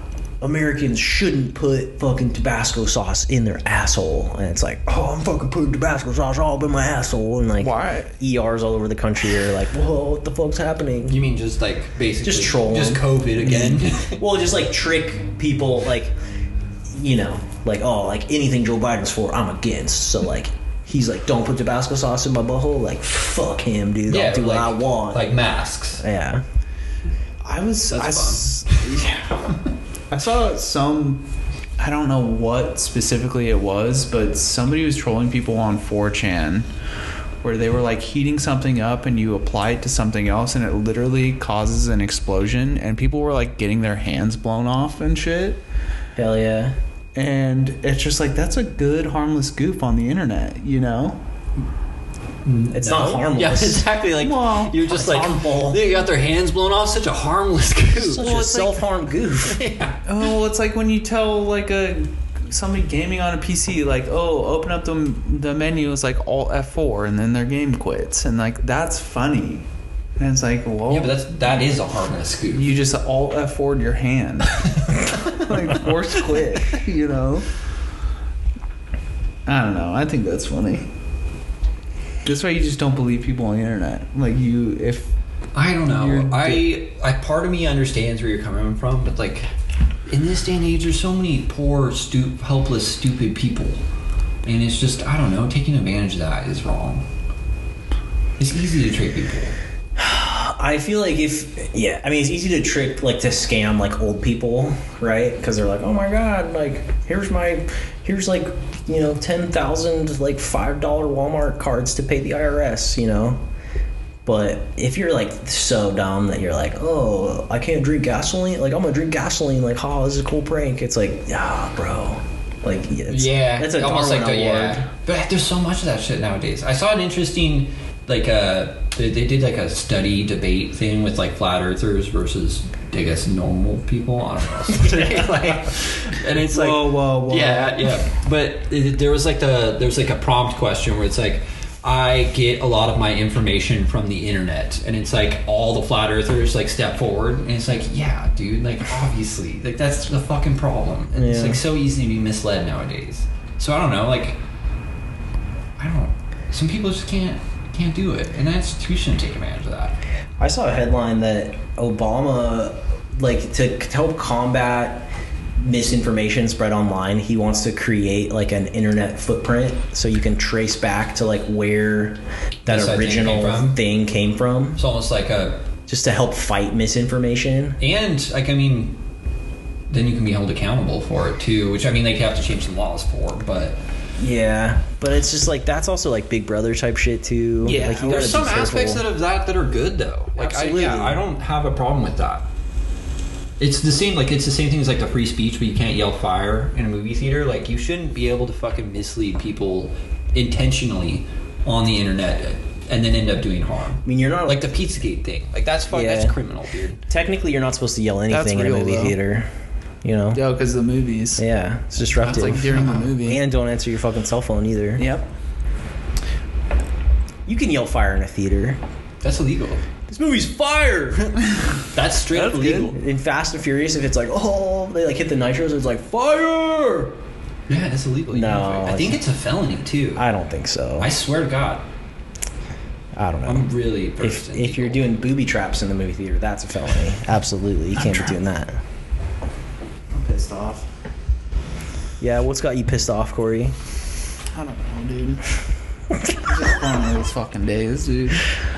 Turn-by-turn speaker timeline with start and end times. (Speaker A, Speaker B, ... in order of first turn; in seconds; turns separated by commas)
Speaker A: 0.4-11.2, Speaker B: 7.6-8.2, Speaker C: 11.1-14.2, Speaker A: 12.2-16.1, Speaker A: 16.9-25.3, Speaker C: 24.1-26.0, Speaker A: 26.0-26.4, Speaker B: 27.4-29.6, Speaker C: 27.9-28.9, Speaker B: 30.1-31.2, Speaker B: 31.8-36.6, Speaker B: 37.4-45.6, Speaker A: 46.1-46.7, Speaker B: 47.1-51.2, Speaker C: 52.4-58.7, Speaker A: 52.7-53.9, Speaker B: 54.2-54.8, Speaker A: 54.8-56.0, Speaker A: 58.0-59.6, Speaker C: 59.4-60.0, Speaker B: 60.0-69.7, Speaker B: 70.2-71.2, Speaker C: 70.9-72.7, Speaker B: 72.5-77.5, Speaker C: 75.0-75.4, Speaker B: 79.5-80.9, Speaker B: 82.2-85.1, Speaker C: 85.5-89.5, Speaker B: 85.8-86.7, Speaker C: 90.1-93.8, Speaker C: 94.4-97.0, Speaker C: 98.4-99.5, Speaker A: 100.0-113.4, Speaker A: 114.2-124.8, Speaker C: 123.1-154.4, Speaker B: 136.3-138.0, Speaker A: 151.1-151.6, Speaker C: 155.8-160.0, Speaker A: 160.4-174.8, Speaker C: 172.7-173.8, Speaker C: 174.8-175.6, Speaker A: 175.9-177.8, Speaker C: 177.8-179.0, Speaker C: 179.9-183.8, Speaker A: 184.2-189.0, Speaker B: 187.6-188.4, Speaker C: 188.0-192.5, Speaker A: 190.4-191.2, Speaker C: 193.6-207.0, Speaker A: 204.0-204.7, Speaker A: 205.9-206.3, Speaker A: 207.1-209.5, Speaker B: 208.3-209.2, Speaker A: 210.0-210.4, Speaker B: 210.3-211.4, Speaker A: 211.4-215.1, Speaker B: 212.2-213.4, Speaker B: 215.0-215.2, Speaker A: 217.4-218.8, Speaker C: 219.2-219.8, Speaker A: 220.1-221.4, Speaker C: 221.9-223.0, Speaker B: 222.3-222.9, Speaker A: 222.9-227.1, Speaker C: 227.7-230.2, Speaker A: 228.3-229.2, Speaker A: 230.1-231.1, Speaker C: 231.0-231.9, Speaker A: 233.2-238.8, Speaker C: 233.4-235.1, Speaker B: 238.0-238.3, Speaker B: 240.1-240.9, Speaker A: 242.2-243.8, Speaker B: 244.5-245.4, Speaker B: 246.4-248.5